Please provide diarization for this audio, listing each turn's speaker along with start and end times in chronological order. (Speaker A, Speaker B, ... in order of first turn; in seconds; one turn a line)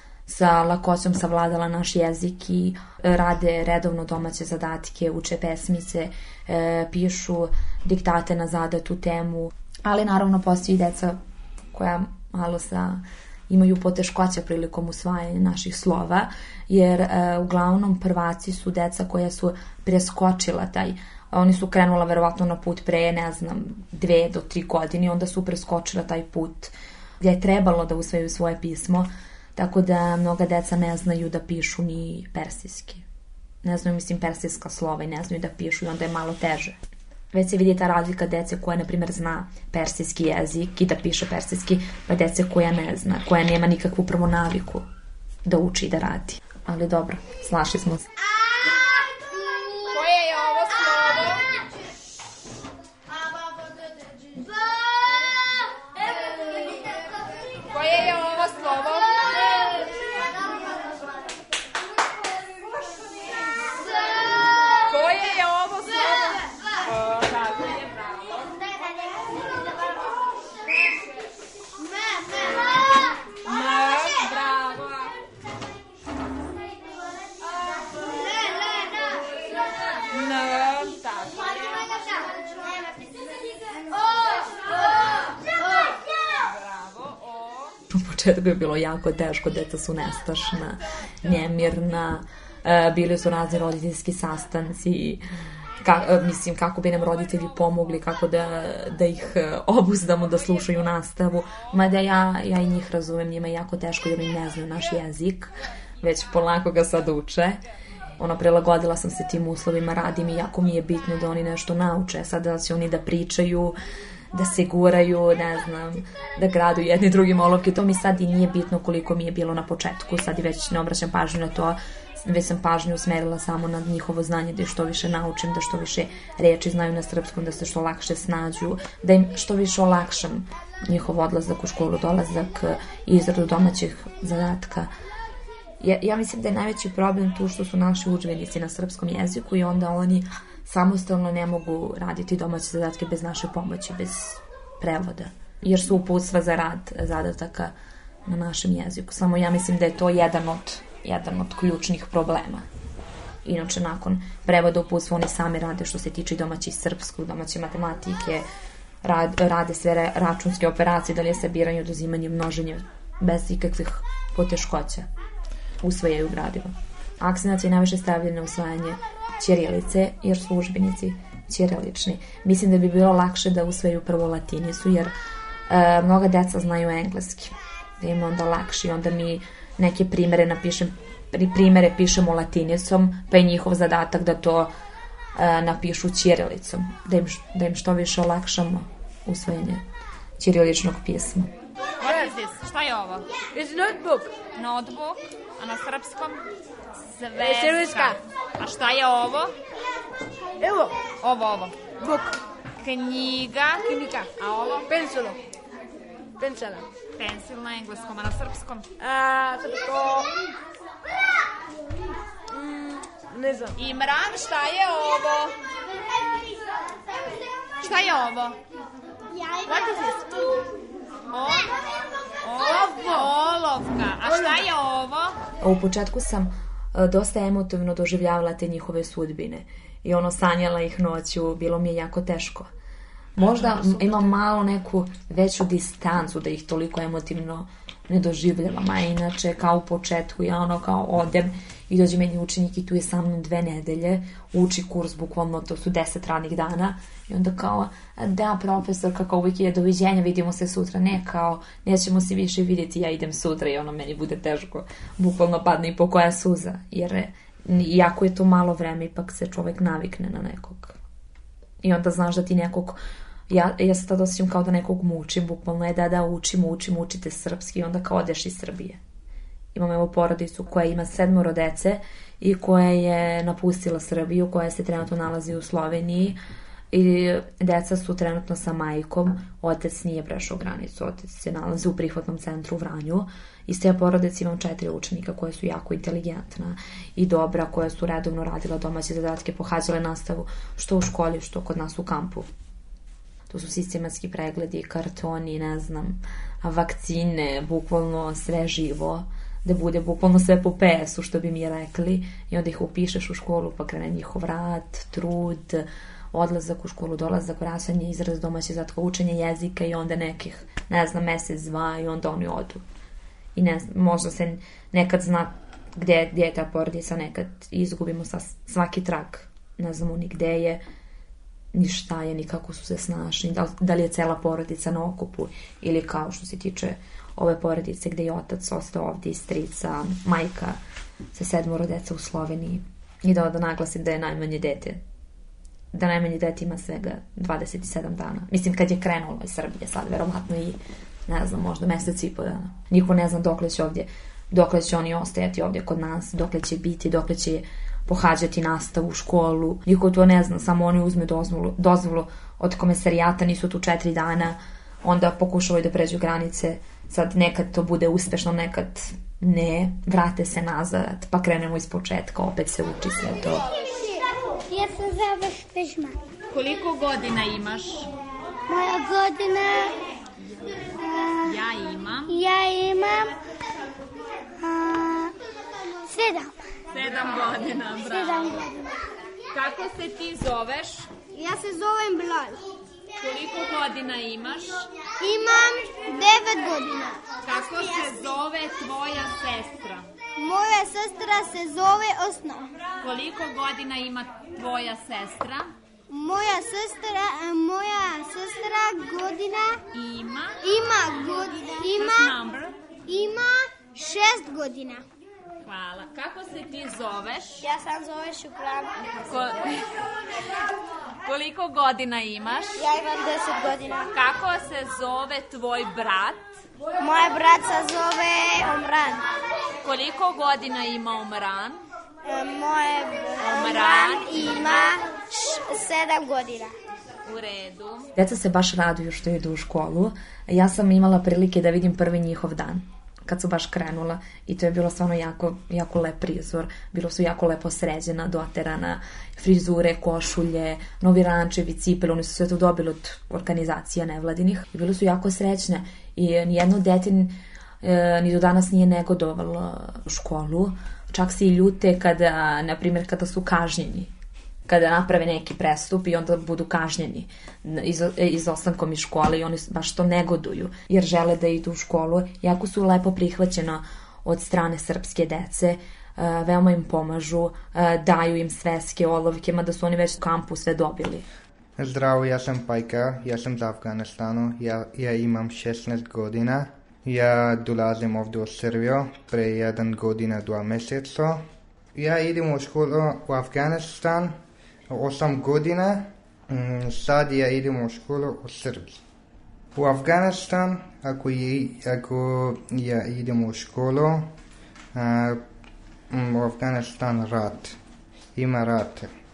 Speaker A: 0.3-11.2
Speaker A: 11.7-33.0
Speaker A: 33.6-36.8
Speaker A: 37.3-44.9
Speaker A: 45.5-48.1
Speaker B: 49.9-51.4
Speaker B: 57.7-59.9
Speaker B: 64.9-68.5
Speaker B: 73.4-75.1
Speaker B: 80.1-81.9
Speaker B: 86.4-87.7
Speaker A: 87.9-95.2
Speaker A: 95.8-107.6
Speaker A: 108.2-113.7
Speaker A: 114.3-134.9
Speaker A: 135.8-147.7
Speaker A: 148.2-152.6
Speaker A: 153.4-158.4
Speaker A: 159.0-165.1
Speaker A: 165.8-175.1
Speaker A: 175.7-184.7
Speaker A: 185.3-189.8
Speaker A: 190.4-191.5
Speaker B: 192.0-193.2
Speaker C: 192.0-192.3
Speaker C: 193.5-194.3
Speaker B: 194.6-196.4
Speaker B: 197.0-199.5
Speaker C: 197.4-198.2
Speaker C: 200.6-200.9
Speaker B: 201.2-201.8
Speaker C: 201.9-202.3
Speaker B: 202.8-203.8
Speaker C: 203.8-205.4
Speaker B: 204.4-204.8
Speaker C: 206.4-206.8
Speaker B: 207.2-208.9
Speaker C: 209.0-210.3
Speaker C: 212.5-213.8
Speaker B: 213.8-215.5
Speaker B: 217.8-218.6
Speaker D: 219.4-219.9
Speaker C: 219.7-220.2
Speaker B: 221.3-221.7
Speaker B: 222.4-225.4
Speaker C: 222.7-223.2
Speaker C: 224.2-224.7
Speaker A: 225.6-232.7
Speaker A: 233.4-261.0
Speaker A: 261.8-263.0
Speaker A: 263.5-269.0
Speaker A: 269.7-276.4
Speaker A: 276.9-292.5
Speaker A: 293.5-312.8
Speaker A: 313.5-320.8
Speaker A: 321.7-330.8
Speaker A: 331.3-335.0
Speaker A: 335.9-363.7
Speaker D: 363.7-364.1
Speaker D: 364.7-366.1
Speaker B: 366.5-368.1
Speaker D: 368.7-369.9
Speaker D: 371.0-371.5
Speaker B: 371.4-372.3
Speaker D: 372.3-373.3
Speaker D: 374.6-375.3
Speaker D: 376.1-376.5
Speaker B: 376.9-378.6
Speaker D: 377.9-378.9
Speaker B: 379.5-381.1
Speaker D: 381.3-382.6
Speaker B: 383.2-384.9
Speaker D: 385.2-388.3
Speaker B: 387.4-390.1
Speaker D: 390.4-392.7
Speaker B: 393.0-395.7
Speaker D: 396.1-399.8
Speaker B: 399.9-400.6
Speaker D: 400.6-402.4
Speaker B: 401.9-402.8
Speaker D: 403.1-405.0
Speaker B: 405.6-407.6
Speaker D: 407.6-408.9
Speaker B: 409.1-409.9
Speaker B: 411.2-412.8
Speaker D: 412.8-414.1
Speaker B: 414.1-416.6
Speaker D: 417.0-419.2
Speaker B: 419.8-421.8
Speaker D: 422.2-426.7
Speaker B: 423.4-424.5
Speaker B: 427.2-428.1
Speaker A: 428.1-454.1
Speaker A: 454.7-471.3
Speaker E: 471.8-481.4
Speaker E: 481.9-484.4
Speaker E: 484.9-489.0
Speaker E: 489.7-494.3
Speaker E: 494.9-495.4
Speaker E: 496.1-497.8
Speaker E: 498.4-499.1